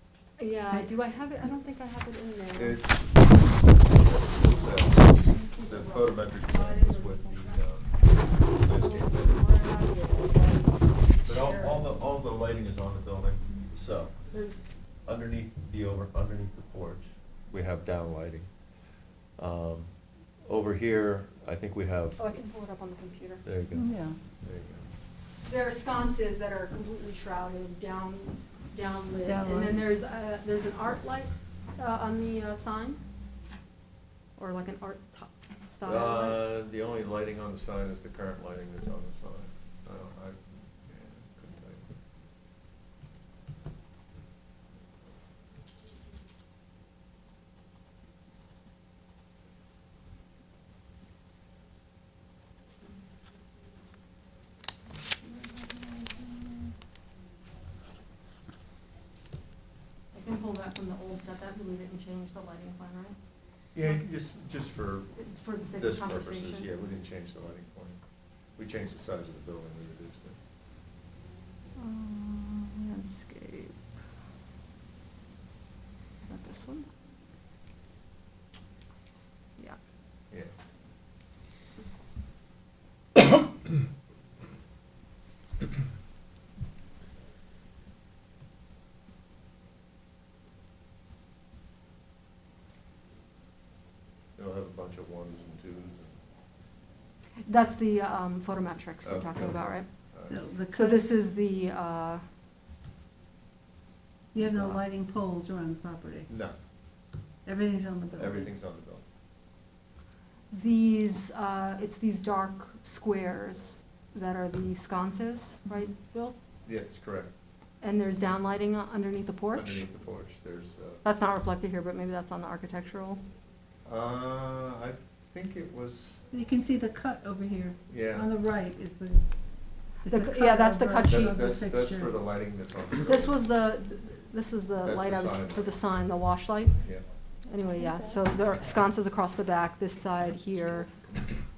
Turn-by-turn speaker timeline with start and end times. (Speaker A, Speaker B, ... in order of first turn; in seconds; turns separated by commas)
Speaker A: 0.4-2.8, Speaker B: 0.7-0.9, Speaker C: 2.5-9.3, Speaker A: 4.7-7.7, Speaker A: 8.6-12.0, Speaker C: 11.2-14.2, Speaker A: 14.3-14.7, Speaker C: 15.0-18.5, Speaker C: 19.4-19.9, Speaker C: 20.4-22.2, Speaker A: 22.2-23.4, Speaker C: 23.4-24.9, Speaker B: 23.7-24.2, Speaker A: 25.4-33.0, Speaker B: 29.2-29.9, Speaker A: 34.4-36.5, Speaker C: 35.8-41.9, Speaker A: 55.2-56.4, Speaker A: 60.1-63.1, Speaker C: 63.7-68.0, Speaker A: 65.2-66.7, Speaker C: 68.6-70.4, Speaker A: 71.8-73.8, Speaker A: 76.2-76.9, Speaker C: 94.3-96.2, Speaker A: 97.4-99.9, Speaker C: 99.0-100.4, Speaker B: 100.3-101.1, Speaker A: 100.7-102.2, Speaker B: 104.3-106.3, Speaker C: 104.4-104.8, Speaker C: 106.3-106.5, Speaker B: 107.4-108.5, Speaker C: 108.2-109.0, Speaker A: 110.5-116.3, Speaker C: 116.6-117.3, Speaker A: 117.8-119.9, Speaker C: 119.5-121.0, Speaker A: 121.0-123.2, Speaker C: 123.8-126.2, Speaker B: 126.3-129.2, Speaker C: 127.9-128.3, Speaker A: 130.0-131.4, Speaker B: 130.0-132.2, Speaker C: 131.0-133.4, Speaker A: 133.0-136.8, Speaker C: 134.8-135.7, Speaker A: 137.5-140.9, Speaker B: 137.8-138.2